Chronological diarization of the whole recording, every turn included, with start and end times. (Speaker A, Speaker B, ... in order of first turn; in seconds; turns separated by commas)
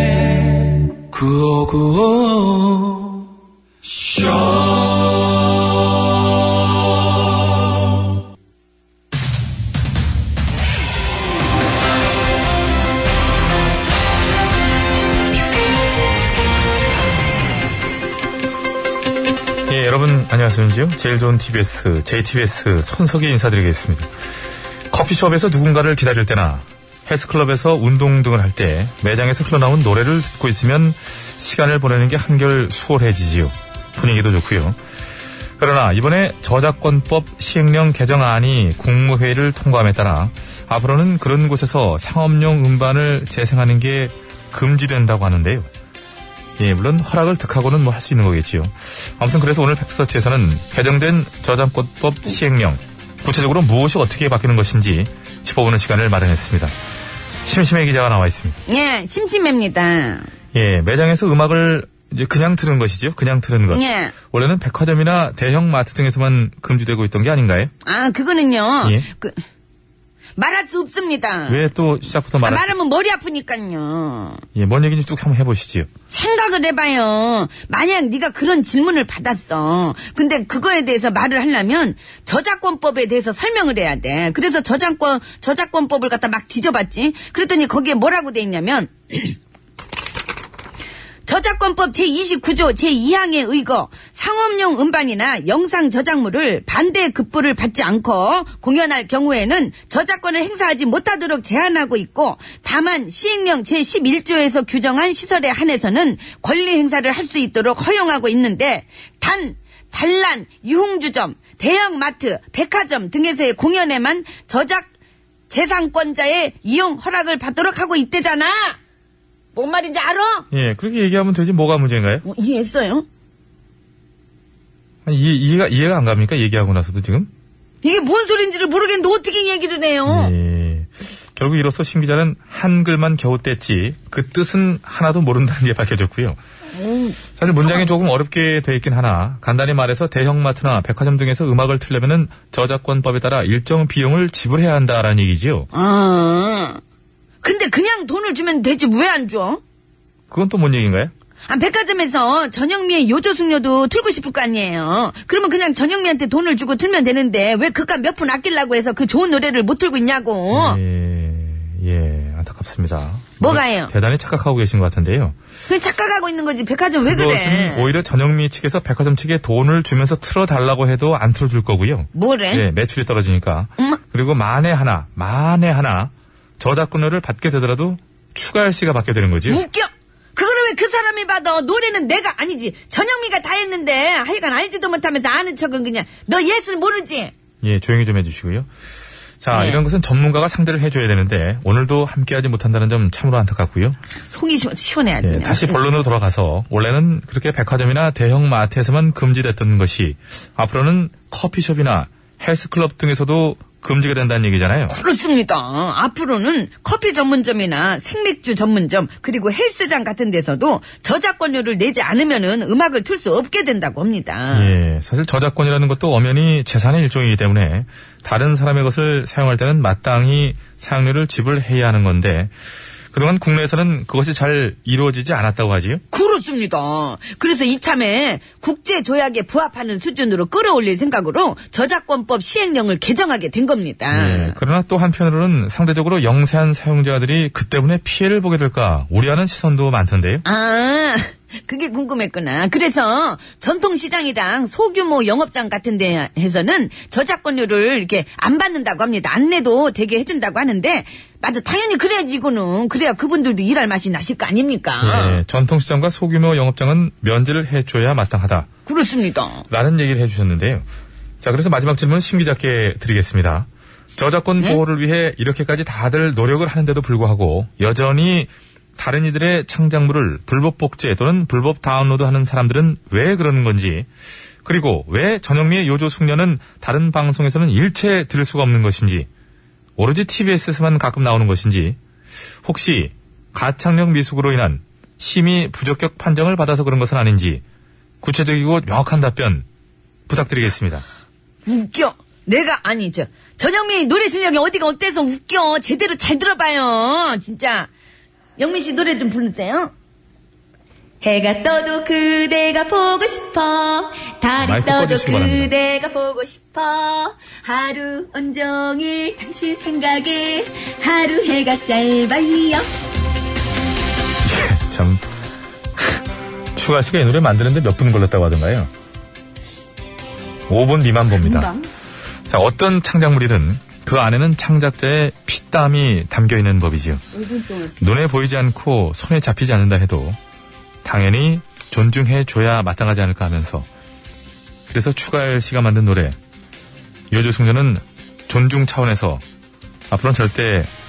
Speaker A: 1.1-3.3, Speaker A: 3.9-4.8, Speaker B: 19.7-24.1, Speaker B: 24.9-34.8, Speaker B: 35.6-45.7, Speaker B: 46.6-56.7, Speaker B: 57.4-58.6, Speaker C: 58.7-60.3, Speaker B: 60.5-67.7, Speaker C: 63.7-64.1, Speaker C: 67.8-69.4, Speaker C: 70.4-71.7, Speaker B: 71.5-72.7, Speaker C: 72.4-74.4, Speaker B: 74.5-75.9, Speaker C: 76.1-89.4, Speaker C: 91.2-114.9, Speaker C: 115.5-118.8, Speaker C: 119.5-120.5, Speaker B: 120.5-122.2, Speaker C: 122.2-123.0, Speaker B: 125.0-127.3, Speaker C: 127.8-130.3, Speaker B: 130.1-136.4, Speaker C: 136.7-137.2, Speaker B: 137.4-145.7, Speaker C: 145.7-146.8, Speaker C: 147.4-149.6, Speaker B: 150.3-151.1, Speaker C: 151.5-160.8, Speaker B: 160.5-165.3, Speaker C: 163.4-163.9, Speaker C: 165.7-167.9, Speaker B: 167.0-179.6, Speaker C: 172.1-172.6, Speaker C: 179.5-187.3, Speaker B: 187.6-188.7, Speaker B: 189.4-194.0, Speaker C: 189.5-189.8, Speaker C: 194.1-195.8, Speaker B: 195.2-204.9, Speaker C: 204.9-214.7, Speaker B: 214.5-222.5, Speaker B: 223.1-226.0, Speaker C: 226.1-234.6, Speaker B: 234.1-240.4, Speaker C: 240.4-255.4, Speaker B: 255.0-258.7, Speaker C: 258.9-259.6, Speaker B: 259.7-260.9, Speaker B: 261.4-274.1, Speaker B: 274.6-279.3, Speaker B: 280.0-282.0, Speaker B: 282.6-287.6, Speaker B: 288.2-289.6, Speaker B: 290.3-291.0, Speaker C: 291.6-297.9, Speaker C: 298.6-299.9, Speaker C: 301.2-312.9, Speaker B: 304.6-305.7, Speaker B: 314.4-315.2, Speaker B: 316.7-318.9, Speaker B: 320.7-321.7, Speaker C: 321.4-321.9, Speaker B: 322.5-327.2, Speaker C: 327.3-328.0, Speaker B: 328.0-330.4, Speaker B: 331.0-333.9, Speaker B: 334.9-336.4, Speaker B: 337.3-339.4, Speaker B: 340.1-340.9